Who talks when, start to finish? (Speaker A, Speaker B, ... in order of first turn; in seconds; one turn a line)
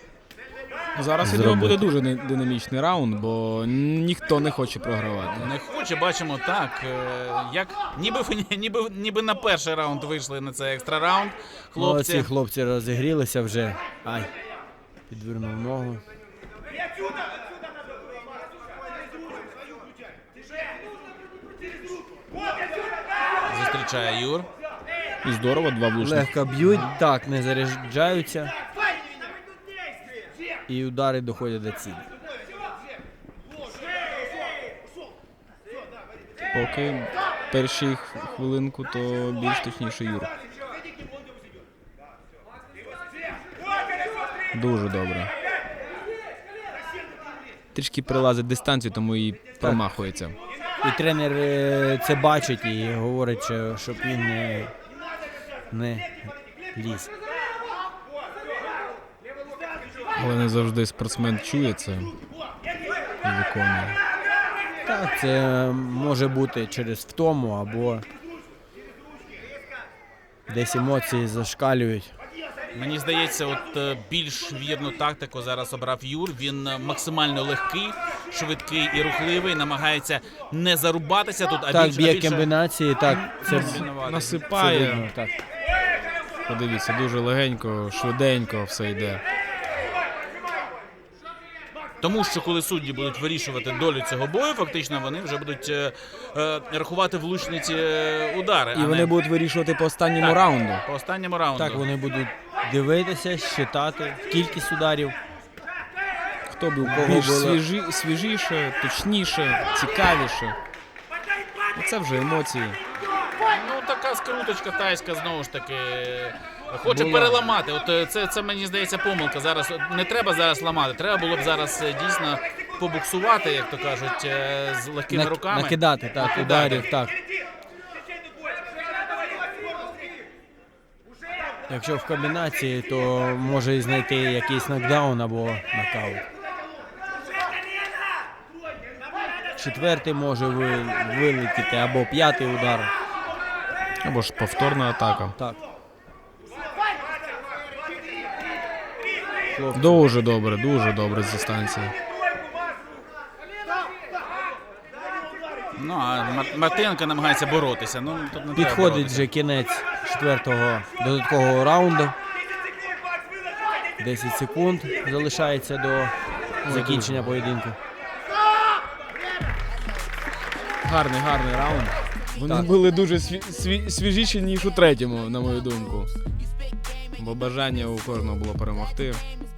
Speaker A: 1.0-5.5
Speaker B: 1.2-1.8
Speaker C: 5.4-12.3
Speaker B: 11.8-14.3
Speaker B: 15.1-16.0
Speaker C: 23.5-24.5
Speaker A: 25.2-27.0
Speaker B: 26.0-28.5
Speaker B: 30.7-32.0
Speaker A: 36.5-40.3
Speaker A: 44.5-45.3
Speaker A: 47.8-50.4
Speaker B: 50.8-54.7
Speaker B: 55.7-56.1
Speaker B: 56.8-57.1
Speaker A: 60.2-62.1
Speaker A: 63.2-64.0
Speaker B: 64.8-68.1
Speaker B: 70.5-72.1
Speaker C: 72.8-82.5
Speaker B: 81.7-83.9
Speaker C: 83.1-84.5
Speaker A: 83.5-85.1
Speaker B: 84.5-85.4
Speaker A: 86.5-89.2
Speaker C: 92.0-99.1
Speaker A: 98.7-100.8
Speaker C: 100.2-101.8
Speaker B: 101.6-105.2
Speaker A: 106.5-110.6
Speaker B: 106.8-107.6
Speaker A: 111.8-112.8
Speaker C: 113.4-126.9
Speaker B: 116.8-117.5
Speaker B: 125.1-127.1
Speaker B: 131.7-136.2
Speaker B: 139.6-142.9
Speaker A: 144.0-145.4
Speaker B: 149.5-150.1
Speaker A: 149.7-151.9
Speaker C: 155.8-159.3
Speaker B: 158.6-162.1
Speaker B: 164.0-166.1
Speaker A: 166.7-167.5
Speaker B: 166.7-167.8
Speaker A: 170.8-176.1
Speaker A: 177.2-179.2